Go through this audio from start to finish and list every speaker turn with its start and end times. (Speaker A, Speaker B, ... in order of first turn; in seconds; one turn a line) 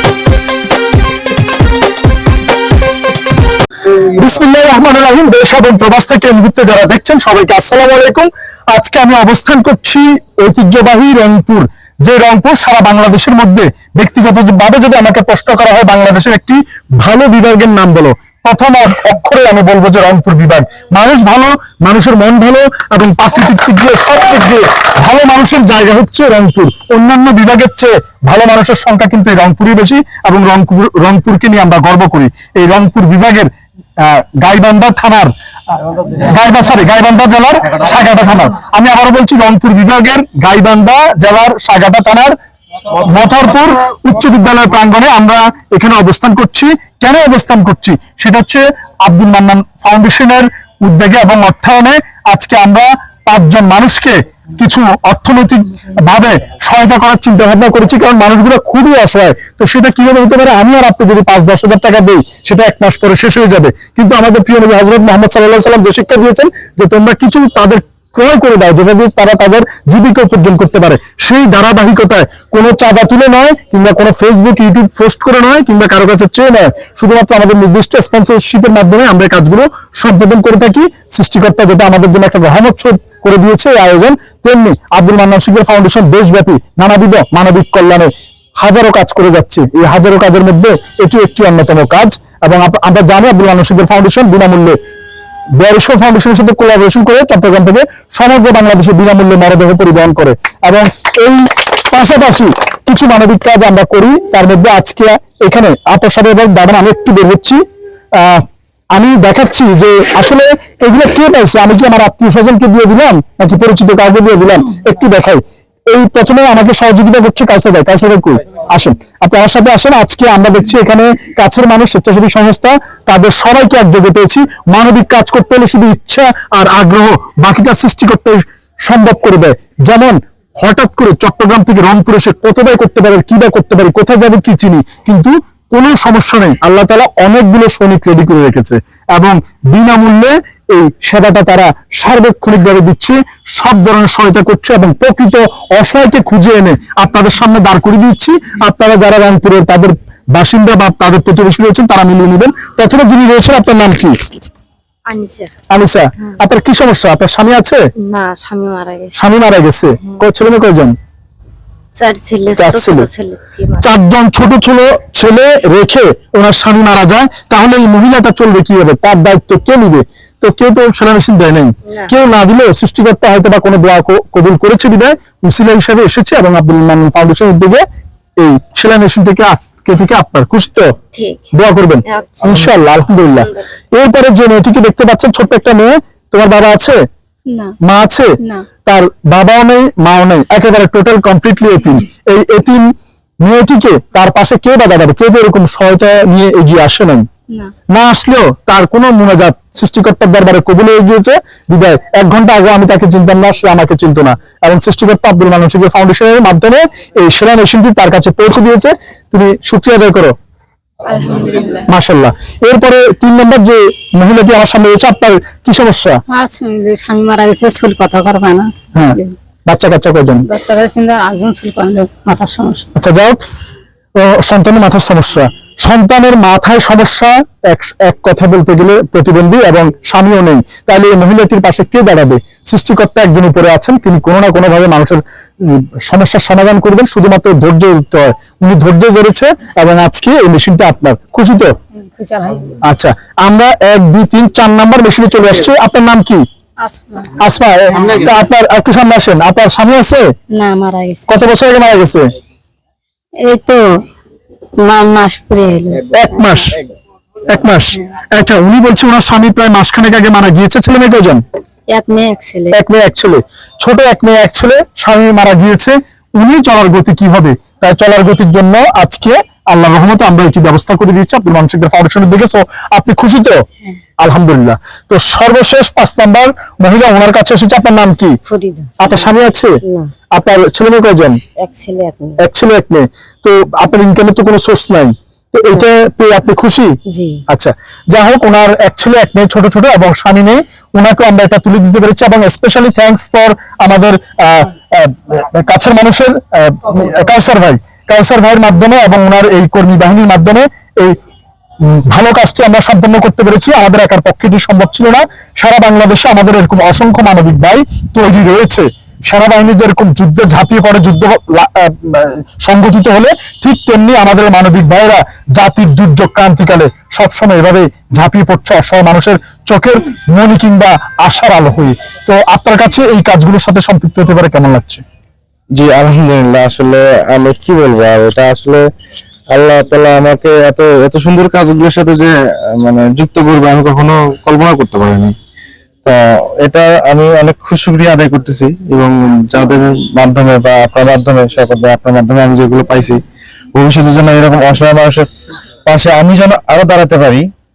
Speaker A: 3.9-35.3
Speaker A: 36.0-42.4
Speaker A: 43.0-94.8
Speaker A: 95.6-107.6
Speaker A: 108.2-154.2
Speaker B: 155.1-155.5
Speaker A: 155.7-157.8
Speaker B: 158.0-159.3
Speaker A: 159.1-160.9
Speaker B: 162.0-163.9
Speaker A: 162.6-163.1
Speaker A: 163.8-177.8
Speaker A: 178.4-180.9
Speaker B: 181.1-181.5
Speaker A: 181.5-187.0
Speaker B: 182.1-182.5
Speaker A: 187.8-192.9
Speaker A: 193.4-197.2
Speaker A: 197.9-210.3
Speaker C: 211.1-211.8
Speaker A: 211.8-216.2
Speaker C: 216.3-219.3
Speaker A: 218.9-220.4
Speaker C: 220.5-222.9
Speaker A: 222.9-223.4
Speaker A: 224.2-241.7
Speaker C: 242.1-242.8
Speaker A: 242.8-246.4
Speaker C: 246.8-247.3
Speaker A: 247.4-250.2
Speaker C: 250.5-251.3
Speaker A: 251.3-252.2
Speaker C: 253.4-253.8
Speaker C: 254.8-256.0
Speaker A: 256.1-256.8
Speaker A: 257.5-261.4
Speaker B: 261.9-262.8
Speaker A: 262.7-273.6
Speaker A: 274.2-278.4
Speaker B: 278.5-279.1
Speaker A: 279.0-279.8
Speaker A: 280.3-281.4
Speaker B: 281.6-282.4
Speaker A: 282.4-286.9
Speaker B: 287.1-287.4
Speaker A: 287.5-301.2
Speaker A: 301.8-325.0
Speaker D: 325.7-328.8
Speaker D: 329.5-335.3
Speaker D: 336.0-343.2
Speaker D: 343.7-347.5